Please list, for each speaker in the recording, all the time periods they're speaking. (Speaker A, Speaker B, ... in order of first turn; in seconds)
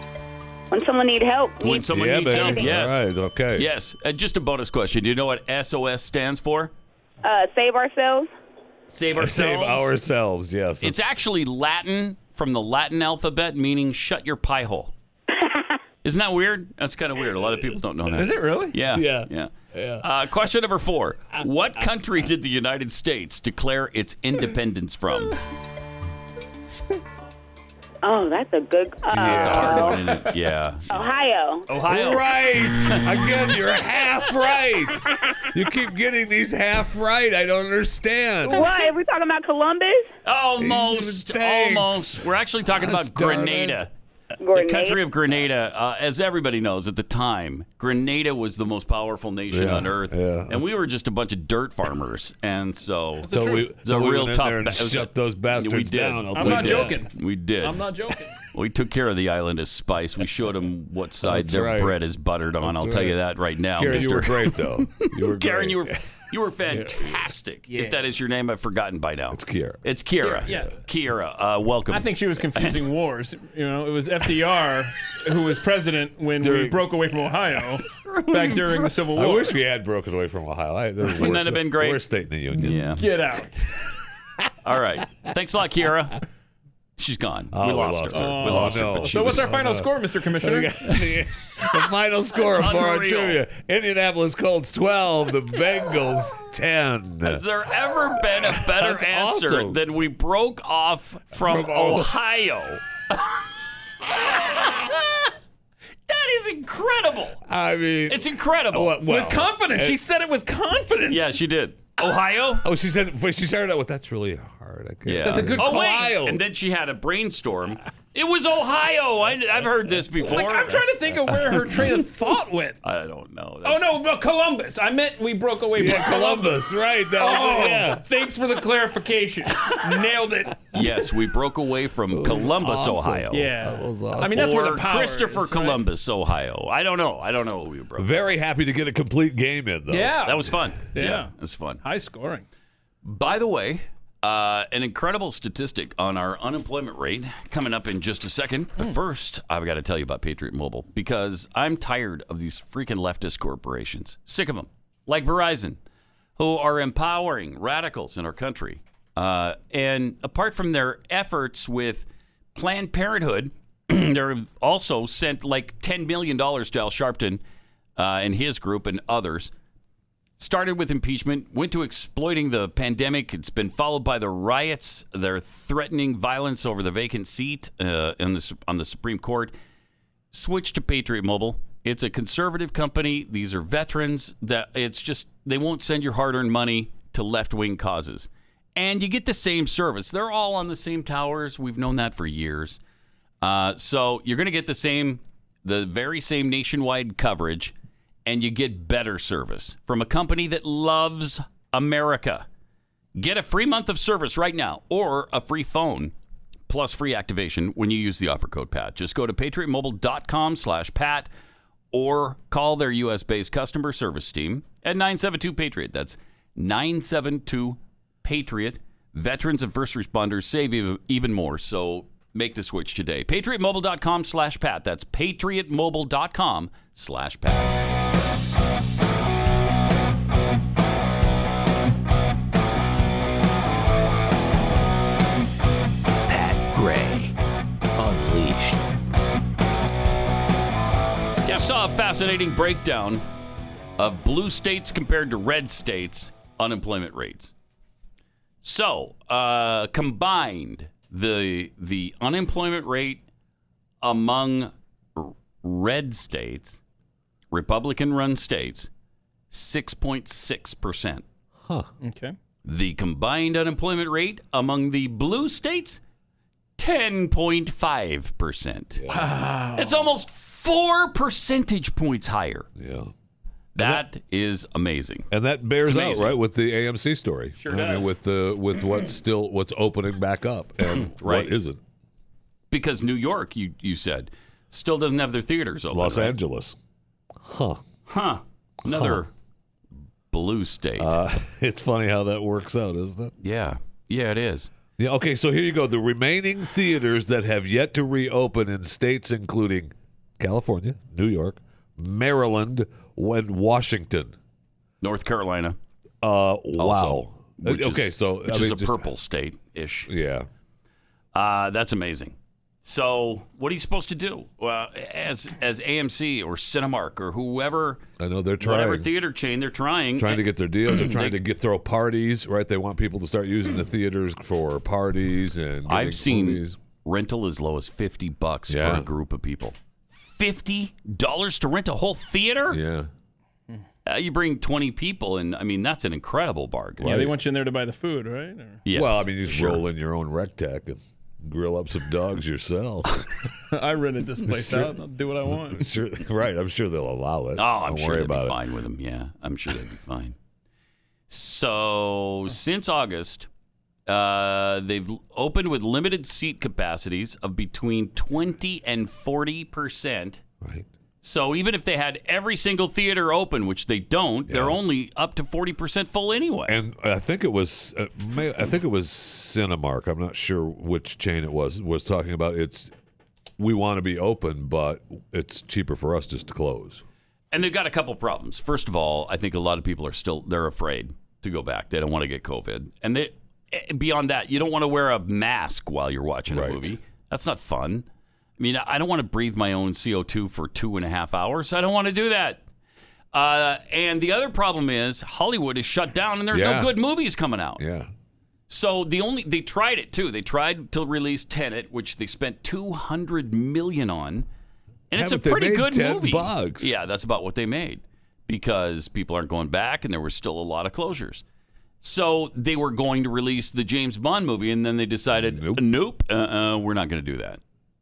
Speaker A: 0.7-2.4, 7.2-8.3, 15.3-15.8, 28.0-29.9, 30.9-31.7, 38.4-40.1, 44.4-45.0
Speaker B: 1.6-3.0, 3.5-6.7, 8.9-9.9, 10.8-14.9, 16.0-25.4, 29.1-30.9, 31.7-33.0, 40.2-43.9, 44.5-57.8, 58.5-72.8, 78.0-79.0, 81.2-82.0, 82.6-83.0, 84.6-86.2, 87.0-89.5, 92.4-93.4, 97.2-103.4, 104.1-105.3, 106.1-107.4, 108.1-109.0, 111.1-112.7, 115.0-120.9, 122.8-123.9, 130.7-133.5, 134.2-138.2, 140.2-141.8, 143.0-155.8, 156.4-167.4, 168.0-169.5, 170.4-179.5, 180.3-192.8, 193.4-197.8, 198.3-202.5, 203.2-206.1, 206.7-211.3, 211.9-227.9, 236.3-237.3, 238.0-238.7, 241.4-243.2, 244.0-247.5, 248.6-253.2, 254.0-256.8, 257.5-258.9, 259.5-261.2, 262.6-266.0, 266.8-269.0, 269.8-272.7, 273.8-275.3, 275.8-276.4, 277.6-278.1, 280.9-281.5, 282.7-286.4, 288.1-289.3, 290.3-291.2, 293.4-294.7, 305.0-305.8, 306.8-310.1, 311.3-318.0, 318.6-321.4, 325.9-332.8, 334.1-337.2, 338.9-339.8, 347.6-350.4, 351.3-353.5, 354.1-360.4, 361.2-366.8, 377.5-388.1, 388.6-392.6, 393.3-397.8, 398.7-404.5, 405.1-411.4, 412.0-417.6
Speaker C: 1.8-3.7, 9.2-11.1, 18.9-20.0, 29.1-29.9, 31.9-38.7, 40.6-43.8, 49.5-50.6, 53.3-57.0, 61.2-62.0, 62.6-63.2, 63.7-66.0, 66.7-67.2, 69.3-69.8, 76.4-76.8, 79.1-83.0, 87.5-97.5, 98.2-99.8, 101.4-102.1, 107.5-110.0, 112.6-116.4, 125.8-128.0, 132.1-134.6, 138.0-140.4, 261.6-261.9, 269.0-269.4, 272.8-273.1, 273.8-274.1, 275.3-281.8, 285.9-286.8, 287.4-287.8, 288.8-289.2, 291.0-293.3, 295.0-304.4, 306.2-309.1, 310.1-310.5, 318.2-319.1, 320.2-326.8, 328.7-329.1, 332.7-333.1, 337.0-337.4, 338.9-343.1, 344.4-348.6, 360.6-360.9, 364.5-364.8, 366.7-372.9, 373.6-377.0, 386.5-387.0, 396.5-397.0, 397.8-398.1, 405.1-406.9, 415.3-415.9
Speaker D: 18.1-18.8, 53.2-53.7, 56.4-58.4, 67.7-68.0, 70.2-70.7, 71.9-79.6, 82.7-83.8, 88.1-91.1, 109.1-111.4, 115.2-116.0, 120.2-122.8, 123.6-126.6, 127.2-130.9, 133.3-135.8, 139.9-142.5, 262.0-262.4, 269.1-270.0, 337.0-338.8, 343.7-346.0